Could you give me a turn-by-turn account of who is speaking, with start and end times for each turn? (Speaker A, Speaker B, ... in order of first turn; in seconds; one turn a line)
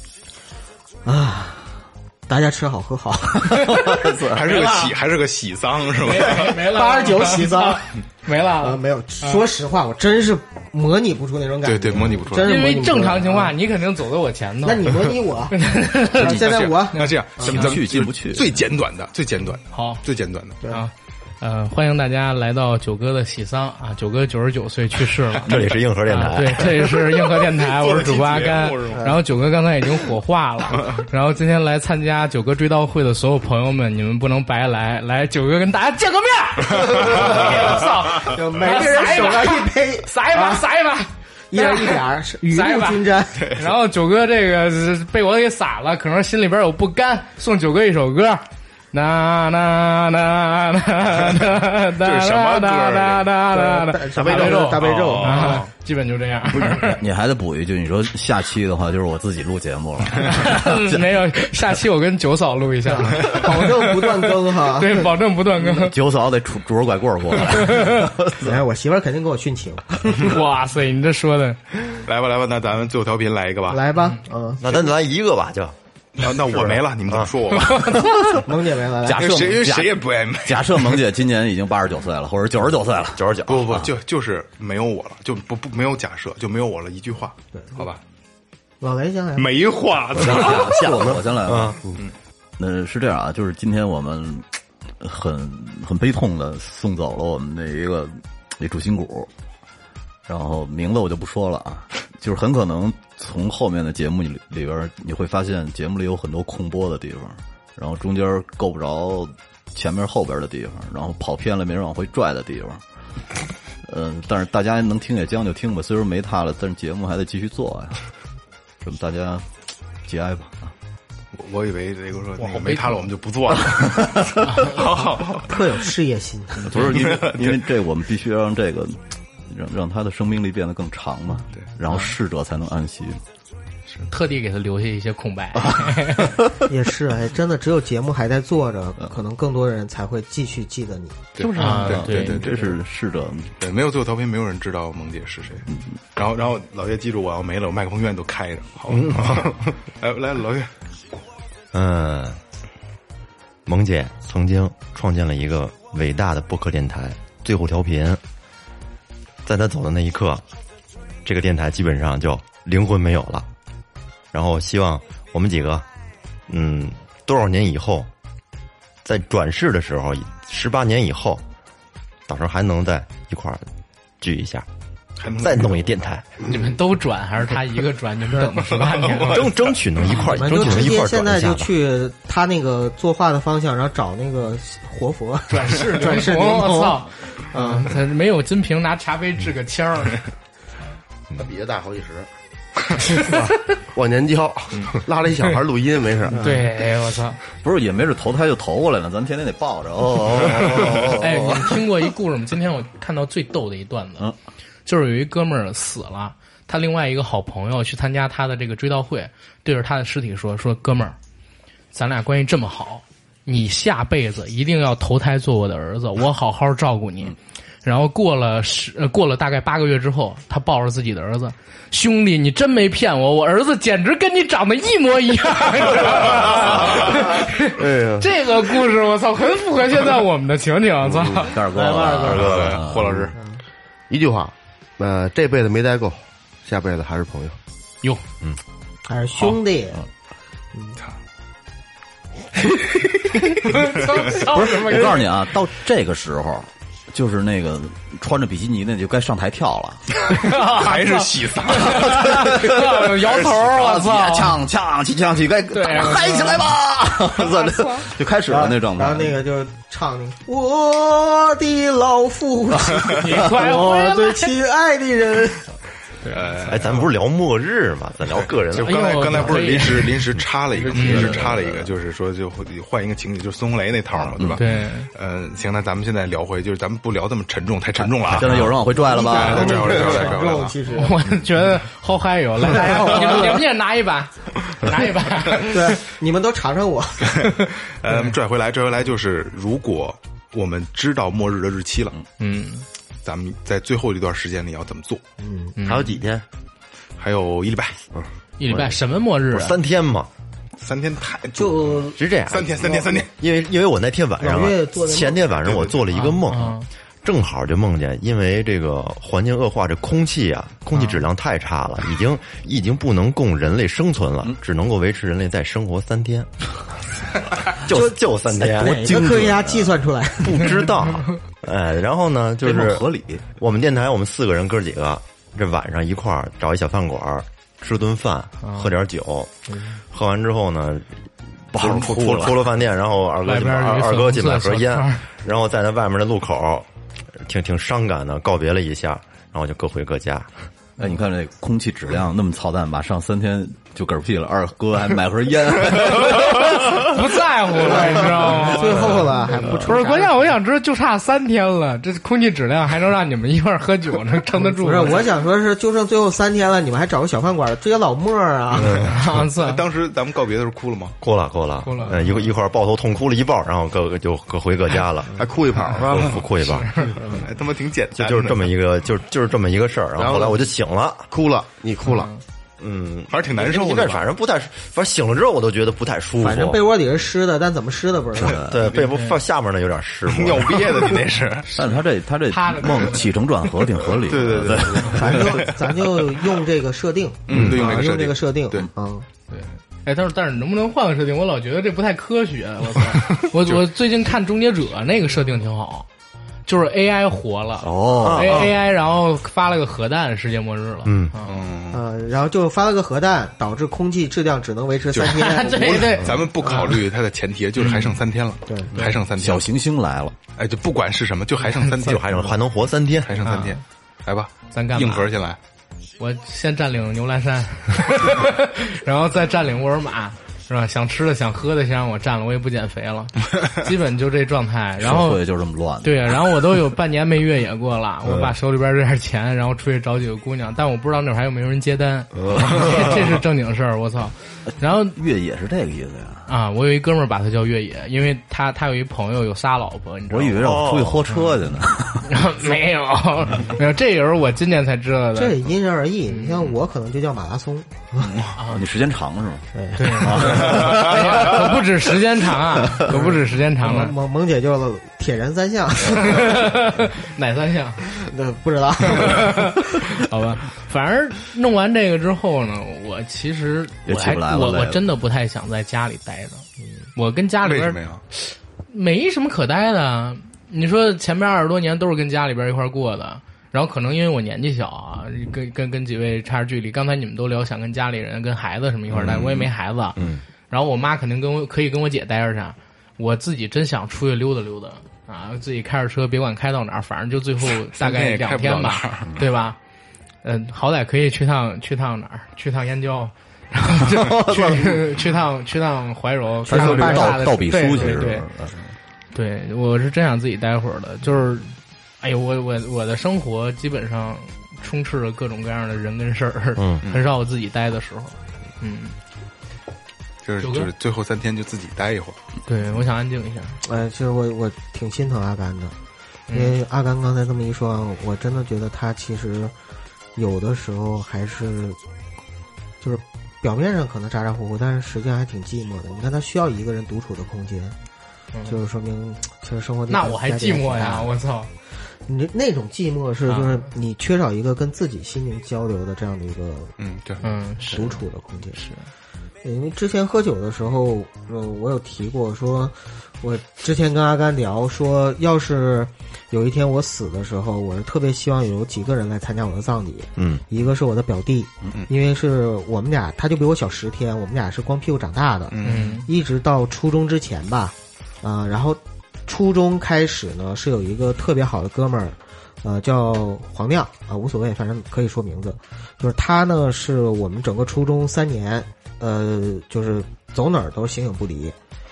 Speaker A: 1.1-1.8
Speaker A: 2.3-4.0
Speaker B: 3.5-4.5
Speaker C: 3.7-4.9
Speaker D: 4.3-6.7
Speaker C: 6.0-9.4
Speaker A: 6.1-8.0
Speaker A: 8.5-13.6
Speaker D: 11.6-12.6
Speaker C: 12.4-17.1
Speaker A: 14.6-17.8
Speaker D: 16.2-20.6
Speaker B: 17.4-18.5
Speaker C: 19.7-20.0
Speaker C: 20.6-57.0
Speaker E: 25.4-27.0
Speaker D: 27.4-29.0
Speaker D: 36.8-37.7
Speaker A: 36.9-40.6
Speaker A: 41.5-43.5
Speaker D: 52.0-53.3
Speaker A: 53.5-55.6
Speaker F: 54.3-54.6
Speaker D: 54.8-55.7
Speaker B: 56.5-61.0
Speaker C: 60.3-65.9
Speaker A: 62.9-65.2
Speaker D: 63.2-63.4
Speaker B: 65.6-68.5
Speaker C: 67.5-68.1
Speaker A: 68.4-70.4
Speaker C: 70.2-71.6
Speaker D: 72.0-73.8
Speaker A: 73.7-74.8
Speaker E: 74.6-75.8
Speaker D: 76.2-78.0
Speaker E: 76.3-77.3
Speaker C: 77.8-78.1
Speaker A: 78.4-79.4
Speaker B: 79.0-83.9
Speaker D: 79.2-81.0
Speaker E: 83.2-83.7
Speaker D: 83.5-88.0
Speaker A: 88.8-89.6
Speaker D: 89.4-90.8
Speaker B: 90.2-91.8
Speaker E: 90.4-91.8
Speaker B: 92.6-94.5
Speaker B: 95.0-99.3
Speaker B: 100.3-112.8
Speaker B: 113.8-118.0
Speaker B: 118.8-119.5
Speaker B: 120.0-120.7
Speaker D: 121.3-125.8
Speaker C: 122.4-123.1
Speaker B: 124.0-124.4
Speaker C: 124.4-124.8
Speaker A: 125.5-126.9
Speaker B: 126.7-133.2
Speaker D: 126.7-127.6
Speaker C: 134.1-136.4
Speaker B: 135.6-136.6
Speaker A: 136.7-141.3
Speaker D: 141.4-142.5
Speaker C: 141.4-142.5
Speaker B: 141.6-143.6
Speaker A: 142.4-142.7
Speaker D: 143.6-150.7
Speaker E: 148.9-149.7
Speaker E: 151.7-152.4
Speaker E: 153.7-158.2
Speaker E: 159.4-160.4
Speaker E: 161.2-163.5
Speaker E: 164.3-165.9
Speaker E: 166.5-168.1
Speaker E: 169.0-171.4
Speaker E: 172.3-173.7
Speaker E: 174.2-174.7
Speaker D: 175.2-175.9
Speaker E: 175.3-176.3
Speaker C: 176.4-179.5
Speaker D: 178.9-179.6
Speaker E: 179.3-181.7
Speaker A: 180.3-188.0
Speaker C: 180.5-180.9
Speaker C: 185.5-190.2
Speaker F: 191.3-192.3
Speaker F: 193.9-196.4
Speaker C: 196.3-197.4
Speaker B: 197.6-201.8
Speaker E: 200.3-201.0
Speaker C: 200.9-204.3
Speaker C: 204.9-211.2
Speaker C: 211.9-231.6
Speaker F: 227.8-228.3
Speaker F: 231.1-231.5
Speaker B: 231.4-233.3
Speaker E: 232.2-232.8
Speaker D: 232.2-233.3
Speaker F: 234.1-237.6
Speaker A: 239.1-240.0
Speaker C: 243.6-245.3
Speaker B: 244.3-250.0
Speaker C: 250.3-254.6
Speaker D: 250.5-252.6
Speaker B: 251.8-259.4
Speaker C: 255.7-256.7
Speaker C: 257.6-258.1
Speaker A: 258.5-265.7
Speaker C: 263.1-264.5
Speaker D: 266.3-267.1
Speaker E: 266.7-269.1
Speaker D: 268.7-280.8
Speaker C: 268.8-270.2
Speaker B: 270.7-271.9
Speaker C: 270.9-271.4
Speaker C: 274.6-275.1
Speaker B: 278.2-280.3
Speaker A: 278.5-281.4
Speaker C: 280.9-286.0
Speaker A: 282.6-283.6
Speaker A: 285.6-287.5
Speaker D: 287.3-292.2
Speaker C: 292.4-292.9
Speaker D: 293.2-295.2
Speaker A: 295.4-295.8
Speaker C: 295.8-296.1
Speaker F: 295.8-296.4
Speaker D: 297.2-298.0
Speaker C: 298.6-299.8
Speaker E: 299.5-300.3
Speaker D: 300.8-303.3
Speaker A: 301.6-302.2
Speaker E: 302.2-316.5
Speaker A: 302.8-303.2
Speaker A: 304.4-305.9
Speaker C: 306.1-306.9
Speaker C: 310.9-311.2
Speaker E: 317.8-319.3
Speaker A: 317.9-320.9
Speaker B: 318.9-319.9
Speaker E: 320.4-329.5
Speaker B: 322.6-323.4
Speaker C: 328.6-328.9
Speaker E: 330.1-331.2
Speaker B: 331.7-332.6
Speaker E: 331.7-340.5
Speaker C: 333.5-335.2
Speaker B: 341.0-347.2
Speaker C: 346.2-355.2
Speaker A: 347.8-350.5
Speaker A: 354.6-359.1
Speaker E: 358.8-359.1
Speaker C: 359.1-359.8
Speaker D: 359.5-361.2
Speaker E: 361.2-365.3
Speaker C: 361.8-362.2
Speaker F: 365.4-366.4
Speaker E: 365.9-366.9
Speaker C: 366.6-367.1
Speaker A: 367.2-367.5
Speaker D: 367.3-368.7
Speaker E: 368.1-371.2
Speaker F: 370.2-370.6
Speaker F: 371.3-372.3
Speaker C: 372.0-372.4
Speaker E: 372.8-376.8
Speaker D: 373.3-374.3
Speaker A: 376.4-378.6
Speaker B: 378.4-378.8
Speaker E: 378.5-381.0
Speaker D: 380.3-381.7
Speaker B: 381.7-385.6
Speaker C: 382.5-383.3
Speaker D: 384.3-385.8
Speaker A: 385.1-389.3
Speaker D: 387.5-388.9
Speaker C: 389.5-396.1
Speaker D: 393.4-393.8
Speaker C: 396.7-401.6
Speaker B: 397.8-398.7
Speaker E: 398.2-398.7
Speaker E: 401.1-401.3
Speaker D: 401.4-402.0
Speaker A: 401.9-406.3
Speaker D: 405.1-409.7
Speaker C: 405.2-407.0
Speaker C: 407.8-408.2
Speaker A: 408.7-409.0
Speaker B: 409.4-410.4
Speaker D: 410.6-412.6
Speaker E: 412.0-413.4
Speaker D: 413.2-415.6
Speaker C: 413.4-413.8
Speaker C: 414.7-415.3
Speaker C: 416.2-425.4
Speaker B: 425.0-426.6
Speaker C: 426.0-435.2
Speaker B: 435.0-436.5
Speaker C: 436.5-440.7
Speaker B: 440.3-442.4
Speaker E: 440.6-441.3
Speaker C: 442.2-445.6
Speaker A: 445.4-448.4
Speaker C: 446.3-446.7
Speaker C: 448.6-448.9
Speaker B: 448.7-451.8
Speaker A: 449.8-450.9
Speaker C: 450.0-454.1
Speaker A: 453.1-456.8
Speaker C: 456.1-458.1
Speaker A: 458.1-459.8
Speaker C: 459.1-480.2
Speaker B: 464.1-465.1
Speaker D: 467.6-468.2
Speaker B: 479.2-479.7
Speaker E: 480.2-480.4
Speaker C: 480.7-489.8
Speaker D: 487.9-489.3
Speaker C: 490.4-498.5
Speaker B: 494.2-495.1
Speaker B: 496.7-498.9
Speaker A: 496.7-497.5
Speaker C: 499.3-509.2
Speaker E: 506.8-507.0
Speaker D: 510.4-512.4
Speaker C: 510.6-510.9
Speaker C: 512.7-513.8
Speaker A: 513.8-515.9
Speaker C: 516.5-516.8
Speaker A: 516.5-519.7
Speaker A: 520.4-522.0
Speaker A: 523.0-528.0
Speaker A: 528.7-531.4
Speaker C: 530.1-531.7
Speaker A: 532.3-538.8
Speaker C: 533.5-533.9
Speaker D: 537.0-537.4
Speaker C: 537.4-539.1
Speaker A: 539.6-571.8
Speaker E: 550.4-550.6
Speaker D: 555.7-556.2
Speaker C: 555.8-556.3